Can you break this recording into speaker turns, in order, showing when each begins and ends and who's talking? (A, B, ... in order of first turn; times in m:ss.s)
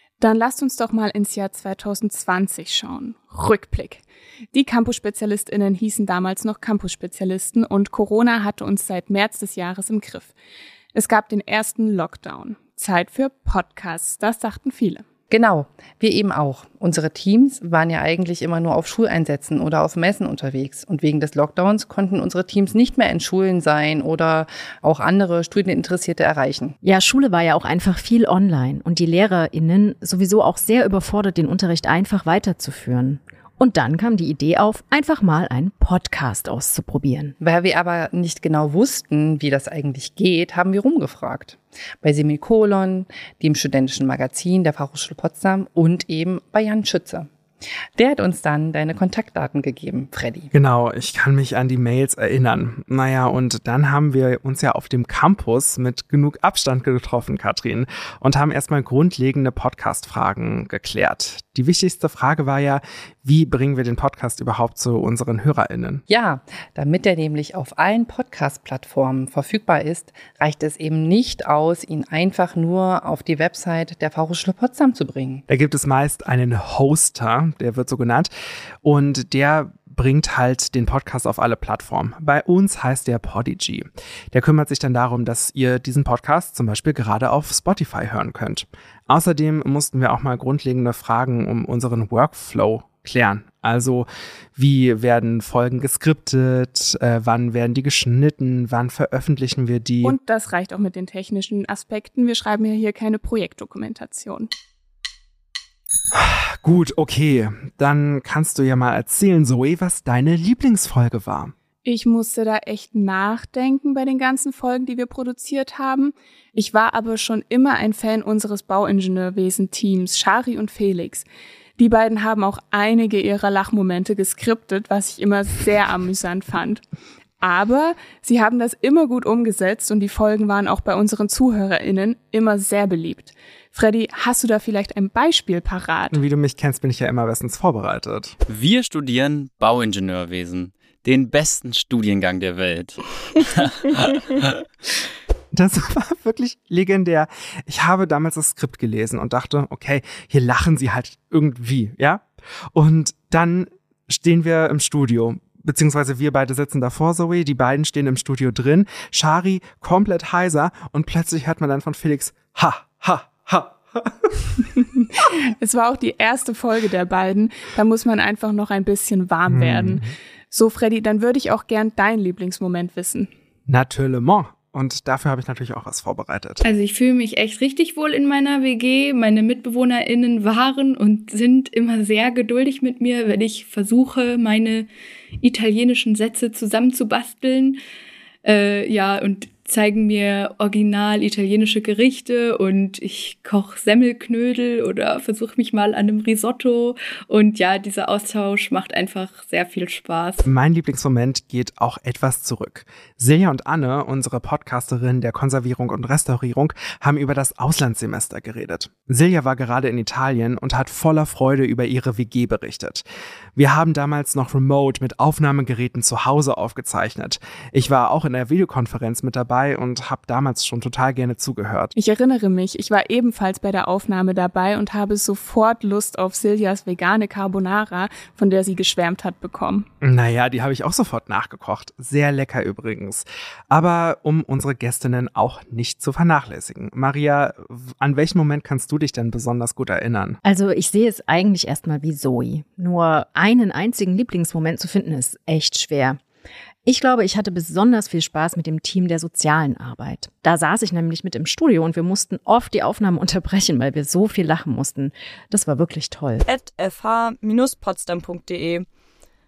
0:00.2-0:10.3 A
0:10.9-0:15.0 A
0:15.3-0:26.8 B
0:26.8-0:37.3 C
0:37.4-0:47.3 B
0:48.0-0:50.5 B
0:50.5-1:06.0 D
1:06.1-1:15.4 B
1:15.5-1:18.3 D
1:18.8-1:40.1 D
1:40.0-1:44.5 A
1:46.1-1:51.5 D
1:51.8-2:01.2 A
2:01.8-2:06.8 A
2:07.4-2:16.2 A
2:16.1-2:18.4 D
2:18.5-2:23.7 E
2:25.5-2:44.6 D
2:45.6-2:53.3 A
2:49.5-2:50.1 D
2:53.7-2:56.6 D
2:56.6-3:07.8 F
3:08.4-3:20.4 F
3:20.4-3:33.0 D
3:33.6-3:41.9 D
3:41.9-3:49.8 A
3:50.0-4:00.4 D
4:00.4-4:06.2 C
4:06.8-4:16.4 C
4:16.4-4:18.8 G